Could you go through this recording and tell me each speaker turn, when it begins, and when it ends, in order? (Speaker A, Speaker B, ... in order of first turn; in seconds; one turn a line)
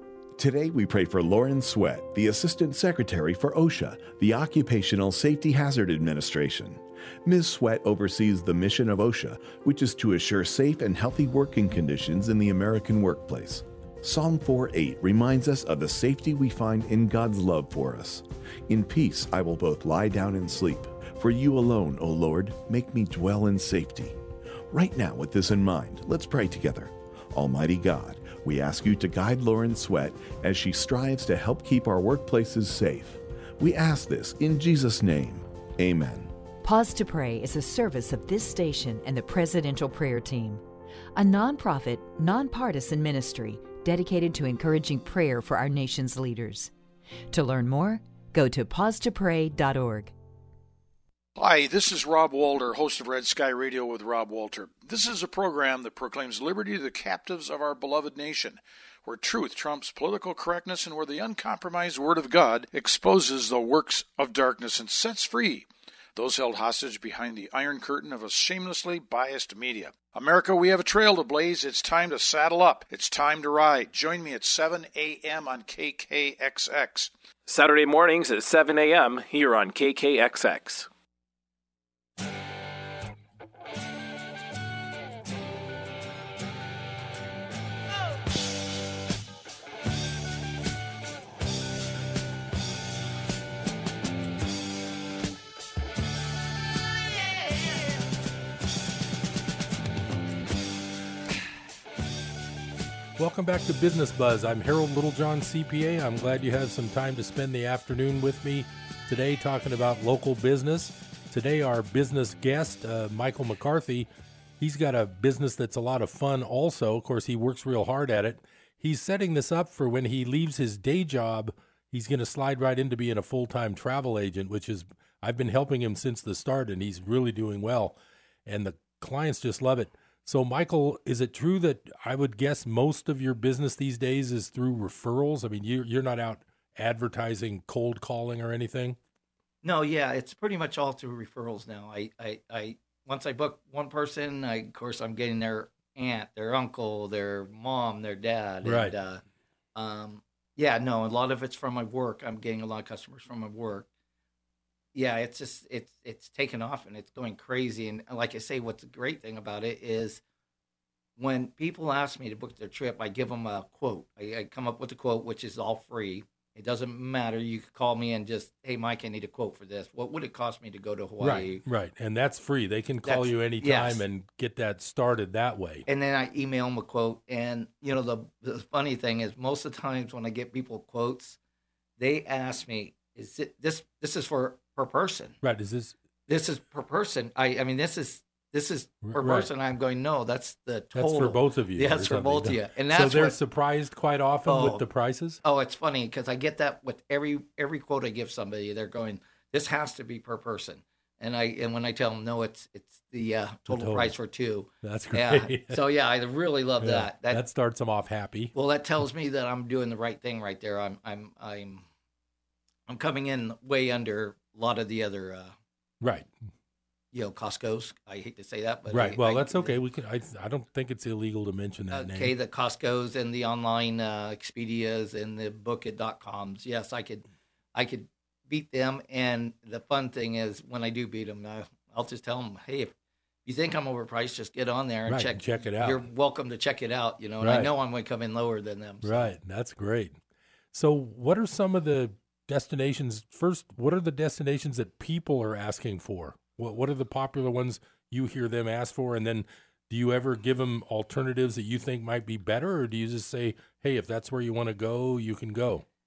Speaker A: 0.4-24.2
Speaker A: 24.7-36.3
Speaker B: 36.6-40.6
Speaker B: 41.2-46.7
Speaker B: 47.3-50.1
Speaker C: 51.4-77.1
Speaker D: 77.5-80.9
Speaker E: 103.2-114.1
Speaker E: 114.6-139.0
Speaker F: 139.6-149.2
Speaker E: 148.6-148.9
Speaker F: 149.8-153.9
Speaker F: 154.9-160.2
Speaker F: 161.2-171.6
Speaker E: 171.2-175.9
Speaker F: 173.1-174.0
Speaker F: 175.9-181.4
Speaker F: 182.0-185.4
Speaker E: 185.4-185.9
Speaker F: 186.3-193.4
Speaker E: 189.0-189.5
Speaker E: 190.9-195.4
Speaker F: 194.5-194.8
Speaker F: 195.4-207.4
Speaker E: 203.7-204.1
Speaker E: 204.8-205.8
Speaker E: 206.8-208.5
Speaker F: 208.5-211.8
Speaker F: 212.9-215.5
Speaker E: 216.0-216.3
Speaker F: 217.1-219.8
Speaker E: 218.9-222.3
Speaker F: 221.9-232.9
Speaker F: 233.4-239.3
Speaker E: 235.1-236.0
Speaker E: 237.4-237.7
Speaker E: 239.0-240.2
Speaker E: 240.7-255.8